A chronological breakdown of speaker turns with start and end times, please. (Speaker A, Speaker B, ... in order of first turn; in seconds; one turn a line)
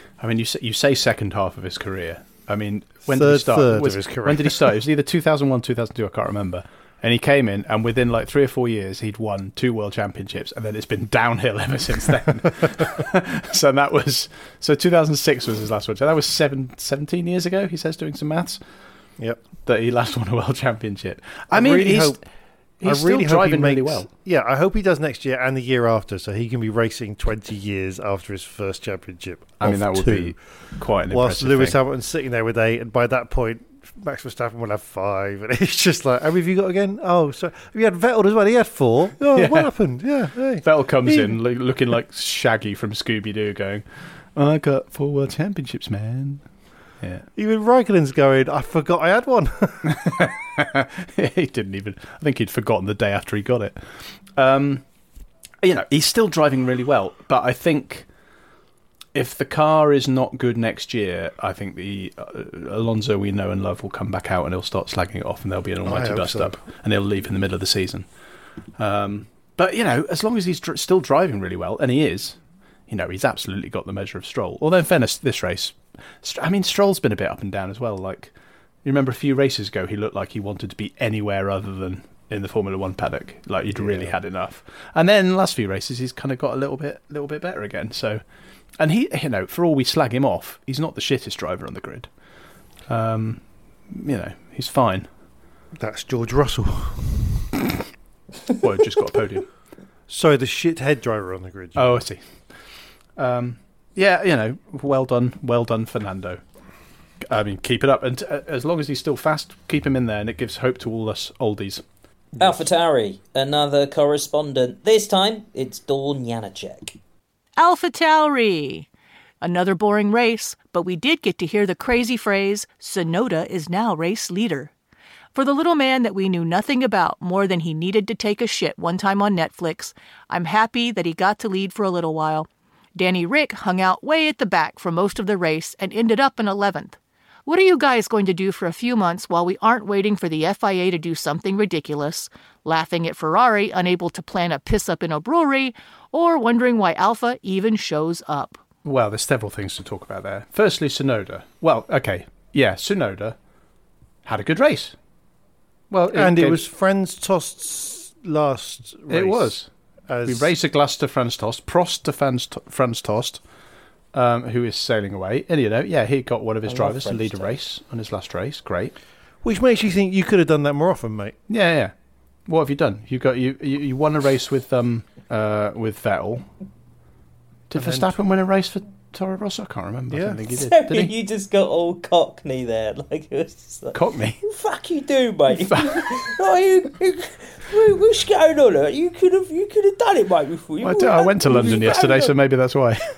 Speaker A: 0.2-18.6
Speaker B: 3.1-4.7
Speaker A: 19.6-22.2
Speaker B: 21.5-22.2
Speaker A: 22.8-24.1
Speaker B: 22.8-30.4
Speaker A: 29.6-31.8
Speaker B: 31.1-41.4
Speaker A: 39.3-39.7
Speaker A: 40.6-46.4
Speaker B: 47.4-50.1
Speaker A: 49.9-53.8
Speaker A: 54.3-54.8
Speaker A: 55.6-58.0
Speaker A: 59.1-68.0
Speaker B: 65.8-66.6
Speaker A: 68.8-72.4
Speaker A: 72.9-78.3
Speaker A: 78.8-88.2
Speaker B: 83.7-84.2
Speaker A: 88.8-92.1
Speaker A: 92.9-95.1
Speaker B: 95.8-97.5
Speaker A: 98.6-99.5
Speaker B: 100.1-102.0
Speaker A: 101.8-102.2
Speaker A: 103.2-106.4
Speaker A: 107.2-111.8
Speaker C: 112.4-117.0
Speaker D: 117.6-118.9
Speaker D: 119.4-124.7
Speaker D: 125.3-148.6
Speaker A: 148.8-153.3
Speaker A: 154.2-154.9
Speaker A: 155.9-156.6
Speaker B: 156.1-160.5
Speaker A: 159.1-159.7
Speaker A: 160.2-163.4
Speaker A: 164.1-168.9
Speaker C: 166.7-167.5
Speaker B: 169.4-171.3
Speaker A: 171.5-171.9
Speaker A: 172.5-176.5
Speaker A: 177.7-181.1
Speaker B: 177.7-178.1
Speaker B: 180.1-180.4
Speaker C: 180.5-192.3
Speaker A: 183.9-184.4
Speaker A: 185.5-186.1
Speaker A: 190.8-193.0